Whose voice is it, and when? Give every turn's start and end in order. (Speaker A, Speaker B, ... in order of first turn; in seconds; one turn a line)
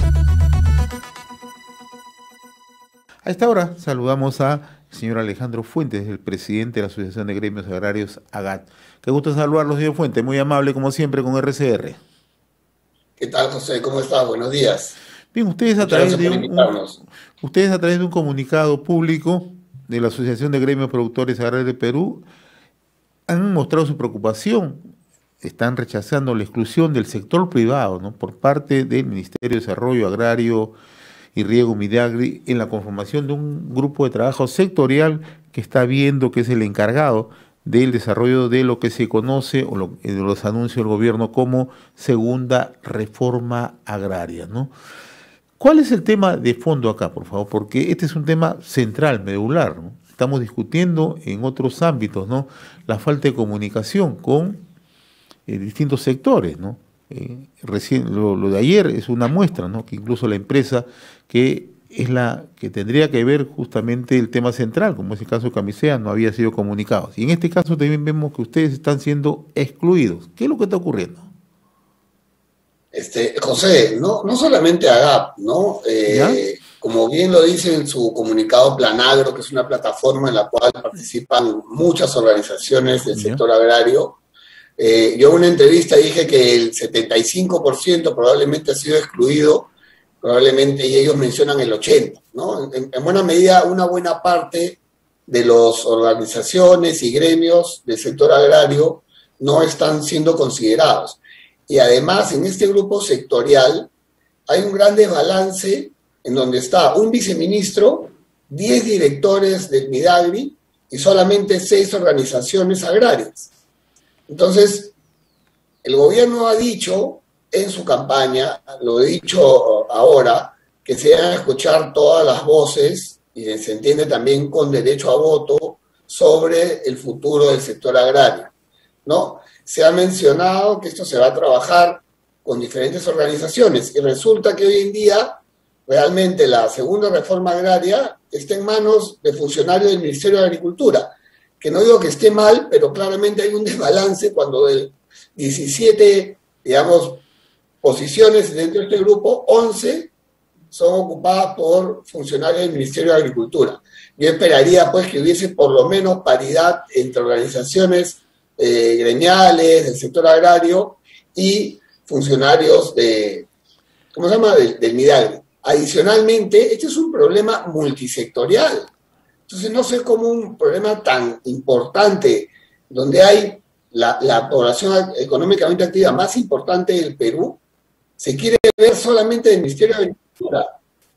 Speaker A: 3.2-12.0
Speaker B: 13.2-15.0
Speaker A: 15.3-16.8
Speaker B: 15.8-17.0
Speaker A: 17.4-22.3
Speaker A: 23.3-24.8
Speaker A: 25.4-30.8
Speaker A: 31.4-44.7
Speaker A: 45.6-54.6
Speaker A: 55.5-71.3
Speaker B: 72.9-84.2
Speaker A: 76.1-76.4
Speaker A: 83.1-83.4
Speaker B: 84.8-103.9
Speaker B: 104.5-113.5
Speaker B: 114.3-114.9
Speaker B: 115.8-128.5
Speaker B: 129.1-147.2
Speaker B: 147.8-150.1
Speaker B: 150.7-163.5
Speaker B: 164.1-168.9
Speaker B: 169.5-177.6
Speaker B: 178.2-180.7